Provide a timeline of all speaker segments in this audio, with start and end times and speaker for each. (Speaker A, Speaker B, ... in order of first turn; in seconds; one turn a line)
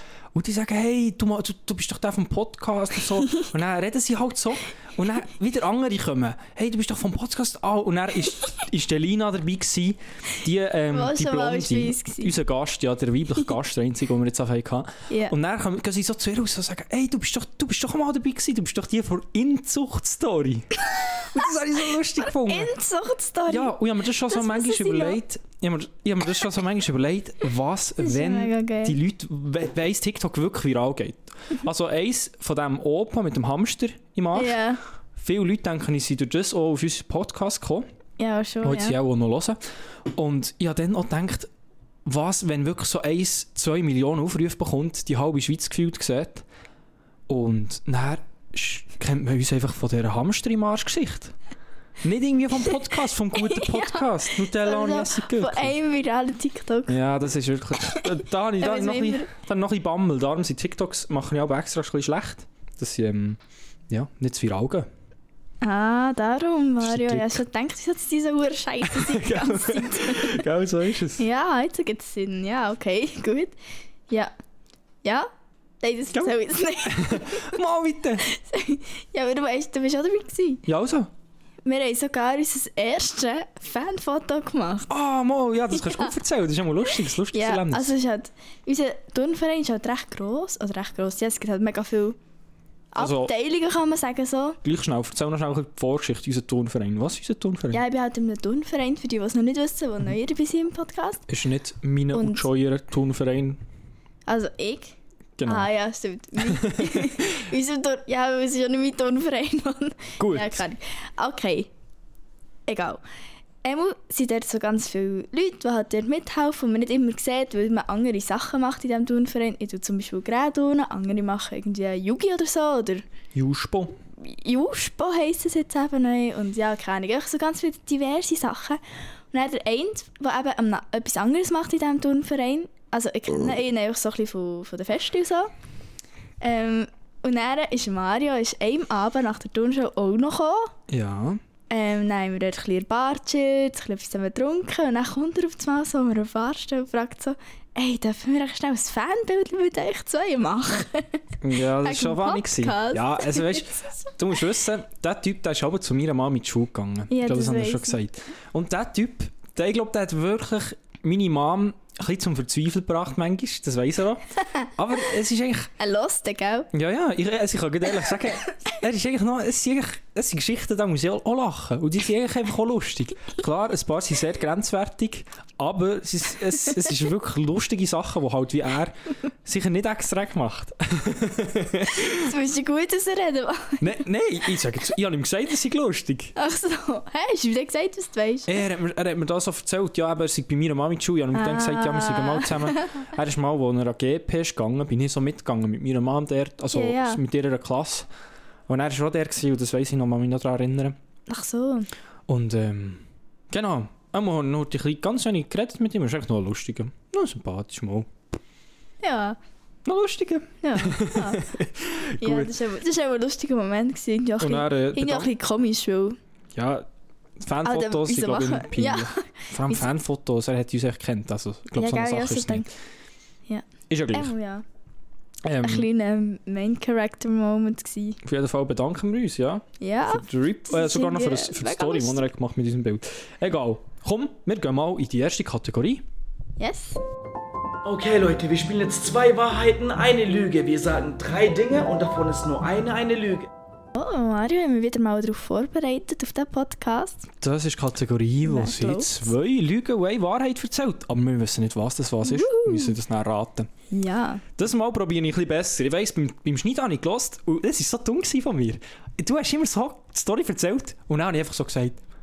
Speaker A: 0.3-22.7
Speaker B: 10.9-12.3
Speaker B: 15.1-15.3
Speaker B: 22.2-23.8
Speaker A: 23.5-34.6
Speaker B: 24.3-25.2
Speaker B: 28.0-29.0
Speaker B: 34.3-34.8
Speaker A: 35.2-37.9
Speaker B: 38.2-39.0
Speaker A: 38.6-39.6
Speaker A: 40.1-41.5
Speaker A: 42.0-46.4
Speaker A: 47.3-51.4
Speaker A: 52.0-55.7
Speaker B: 53.4-57.0
Speaker A: 56.9-64.9
Speaker B: 57.9-59.3
Speaker B: 65.6-70.4
Speaker A: 66.8-67.4
Speaker A: 68.8-71.2
Speaker B: 71.2-73.5
Speaker B: 75.0-75.3
Speaker B: 75.8-77.5
Speaker A: 76.1-78.2
Speaker B: 78.2-80.6
Speaker A: 80.7-81.1
Speaker B: 81.6-84.9
Speaker A: 84.9-87.9
Speaker B: 85.8-86.1
Speaker B: 87.3-92.2
Speaker B: 92.9-94.6
Speaker A: 93.0-93.3
Speaker A: 94.6-97.8
Speaker B: 97.7-101.2
Speaker A: 101.3-103.6
Speaker B: 102.1-102.4
Speaker B: 104.3-111.7
Speaker A: 105.4-105.7
Speaker A: 106.4-107.2
Speaker A: 110.2-110.6
Speaker B: 112.7-113.0
Speaker B: 113.6-123.0
Speaker A: 123.3-124.0
Speaker B: 124.2-128.8
Speaker B: 129.3-135.5
Speaker B: 136.4-140.7
Speaker A: 140.9-141.4
Speaker B: 141.7-151.2
Speaker A: 151.4-165.7
Speaker B: 151.8-154.1
Speaker B: 157.1-158.0
Speaker B: 165.8-166.7
Speaker A: 166.7-182.3
Speaker B: 182.0-183.9
Speaker A: 183.8-186.3
Speaker B: 186.4-188.6
Speaker A: 188.5-198.1
Speaker B: 191.3-193.0
Speaker B: 196.7-197.2
Speaker A: 198.7-201.0
Speaker B: 201.3-201.9
Speaker A: 202.3-208.1
Speaker B: 209.0-209.4
Speaker A: 209.8-212.5
Speaker B: 210.6-211.4
Speaker B: 212.2-216.2
Speaker A: 214.4-215.3
Speaker A: 216.5-216.9
Speaker A: 217.4-222.7
Speaker B: 217.6-219.9
Speaker B: 221.8-222.7
Speaker B: 223.5-224.6
Speaker A: 223.9-224.3
Speaker A: 225.4-225.9
Speaker B: 225.6-228.2
Speaker A: 228.2-236.0
Speaker B: 229.8-232.2
Speaker B: 236.6-237.0
Speaker C: 237.8-243.5
Speaker B: 244.0-247.3
Speaker A: 247.4-253.7
Speaker B: 248.4-249.3
Speaker B: 252.2-253.0
Speaker B: 253.9-254.4
Speaker A: 254.6-262.0